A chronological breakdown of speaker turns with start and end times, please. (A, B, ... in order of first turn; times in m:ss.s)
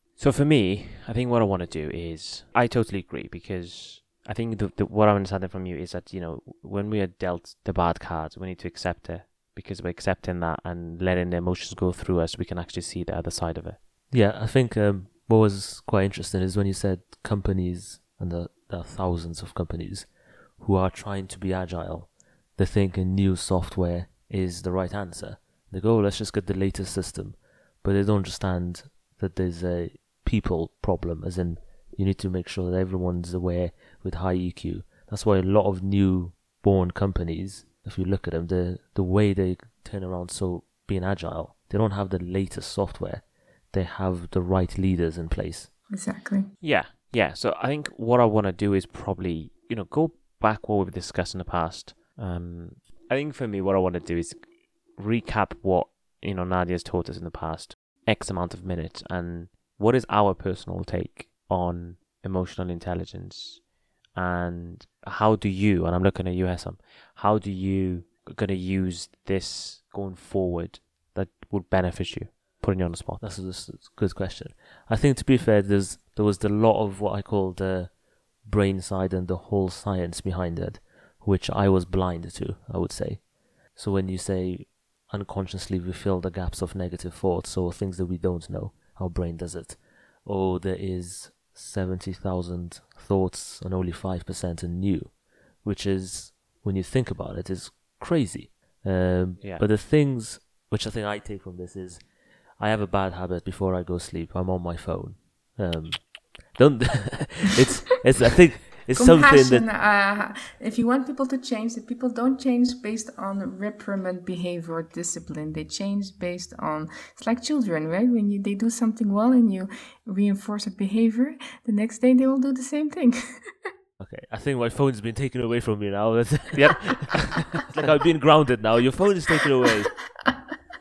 0:00.2-0:13.8 A
0:14.1-0:45.7 B
0:45.9-0:46.5 C
0:46.6-1:13.2 A
1:13.2-1:49.7 B
1:48.9-2:03.6 C
2:04.0-2:10.1 B
2:06.5-2:07.5 A